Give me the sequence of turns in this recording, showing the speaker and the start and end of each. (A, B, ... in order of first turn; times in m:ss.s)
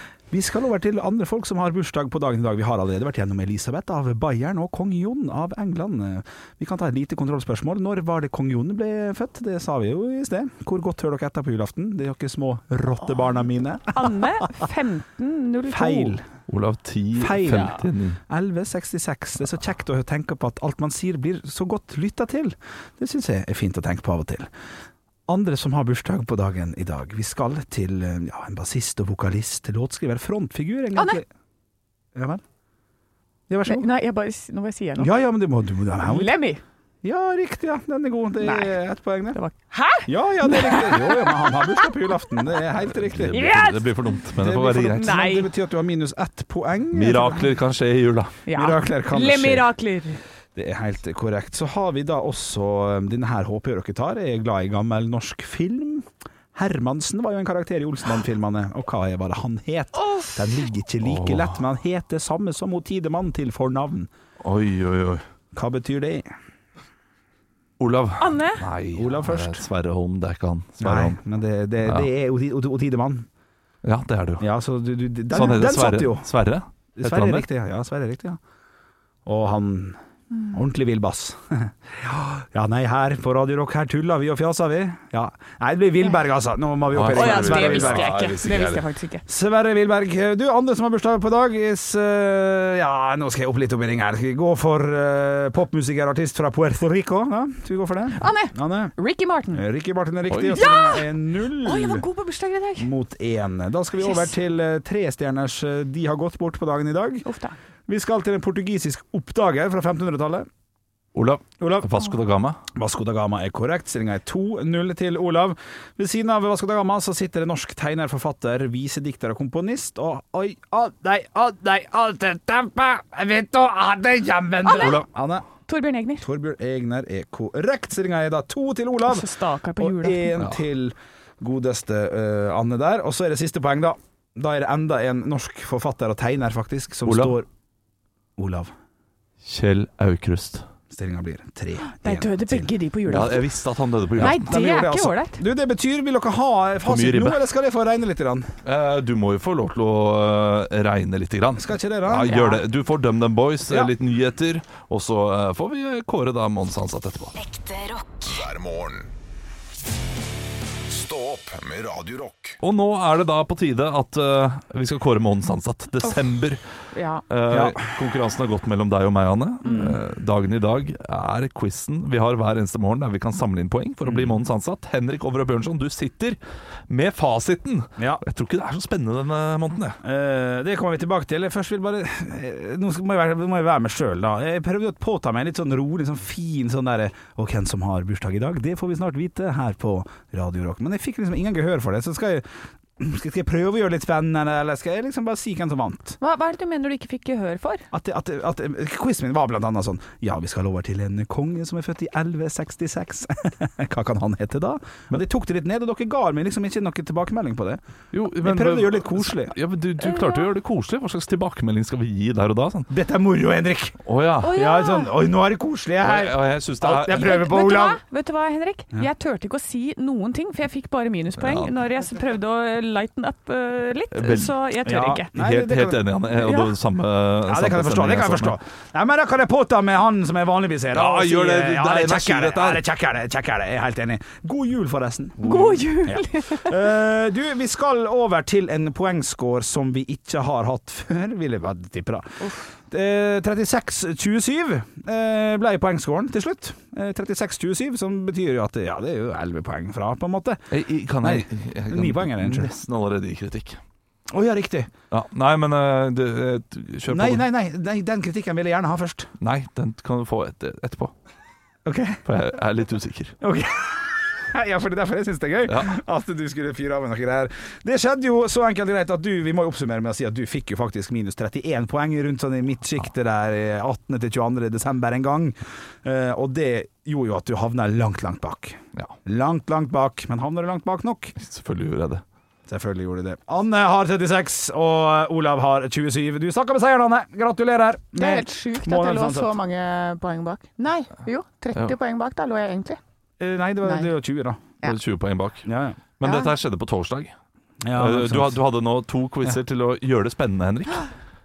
0:00.3-0:14.4 A
0:13.9-0:16.2 B
0:15.7-0:16.2 A
0:16.5-0:18.2 C
0:17.2-0:24.5 A
0:25.3-0:31.2 A
0:30.9-0:31.2 B
0:32.1-0:32.4 A
0:33.5-0:33.9 A
0:33.6-0:35.1 B
0:35.0-0:36.4 A
0:36.0-0:36.6 B
0:37.0-0:39.4 A
0:38.4-0:38.8 B
0:39.3-0:41.6 B
0:40.0-0:43.6 A
0:43.0-0:45.2 C
0:43.3-0:44.1 B
0:44.4-0:47.5 A
0:44.9-0:45.5 B
0:46.9-0:48.4 C
0:48.4-0:50.2 B
0:48.5-0:49.7 A
0:50.5-1:04.1 A
1:00.0-1:00.4 B
1:01.0-1:01.6 C
1:04.4-1:05.2 C
1:05.5-1:06.3 A
1:07.8-1:11.2 C
1:08.2-1:08.6 B
1:09.0-1:09.6 A
1:10.8-1:13.3 A
1:13.8-1:14.4 C
1:14.4-1:16.3 A
1:15.3-1:17.4 C
1:17.0-1:18.4 A
1:19.2-1:20.0 A
1:20.5-1:28.2 A
1:26.9-1:28.8 C
1:27.1-1:29.2 B
1:29.3-1:38.9 A
1:38.2-1:39.6 B
1:39.5-1:42.0 A
1:40.3-1:40.6 C
1:40.5-1:42.9 B
1:42.8-1:47.2 A
1:44.0-1:44.3 B
1:47.2-1:47.6 B
1:47.9-1:50.5 A
1:51.1-1:52.6 C
1:51.6-1:51.9 A
1:52.7-2:05.5 A
2:04.6-2:05.0 B
2:04.7-2:05.0 C
2:05.7-2:06.2 B
2:06.2-2:17.5 A
2:09.0-2:10.4 B
2:17.0-2:17.3 C
2:18.4-2:18.7 A
2:19.4-2:20.6 C
2:20.9-2:22.7 A
2:21.9-2:23.5 B
2:23.1-2:24.4 C
2:24.2-2:25.4 B
2:24.2-2:28.5 A
2:26.8-2:27.4 C
2:28.6-2:37.4 C
2:31.6-2:32.4 A
2:32.2-2:32.6 B
2:37.6-2:39.1 D
2:40.8-2:42.6 D
2:42.6-2:46.6 C
2:46.9-2:47.2 B
2:47.3-3:00.0 C
2:47.5-2:47.8 A
2:49.6-2:50.0 B
2:54.1-2:54.3 A
3:00.0-3:12.4 A
3:13.0-3:16.2 A
3:16.2-3:17.8 B
3:17.9-3:27.8 A
3:28.1-3:32.9 C
3:28.4-3:29.5 A
3:30.0-3:30.4 B
3:32.9-3:38.0 A
3:34.0-3:34.6 C
3:34.4-3:35.1 B
3:36.0-3:37.4 C
3:37.0-3:45.3 B
3:41.4-3:41.7 C
3:44.1-3:44.5 C
3:44.8-3:46.0 A
3:45.3-3:48.6 C
3:46.4-3:46.7 B
3:47.5-4:10.6 A
3:50.9-3:52.8 C
3:55.4-3:56.7 B
3:55.4-3:55.8 C
4:10.7-4:13.8 C
4:11.2-4:12.7 A
4:14.3-4:14.9 A
4:15.1-4:17.4 C
4:17.1-4:19.3 A
4:19.4-4:21.1 C
4:21.8-4:22.2 A
4:22.2-4:23.4 C
4:23.4-4:41.4 A
4:25.7-4:26.0 C
4:41.4-4:42.2 C
4:42.7-4:49.5 A
4:48.1-4:53.0 B
4:53.4-4:54.7 A
4:53.8-4:54.1 B
4:54.8-4:55.7 C
4:55.6-4:56.0 A
4:56.2-4:57.3 C
4:56.2-4:56.5 B
4:57.8-4:58.6 A
4:57.9-5:01.1 C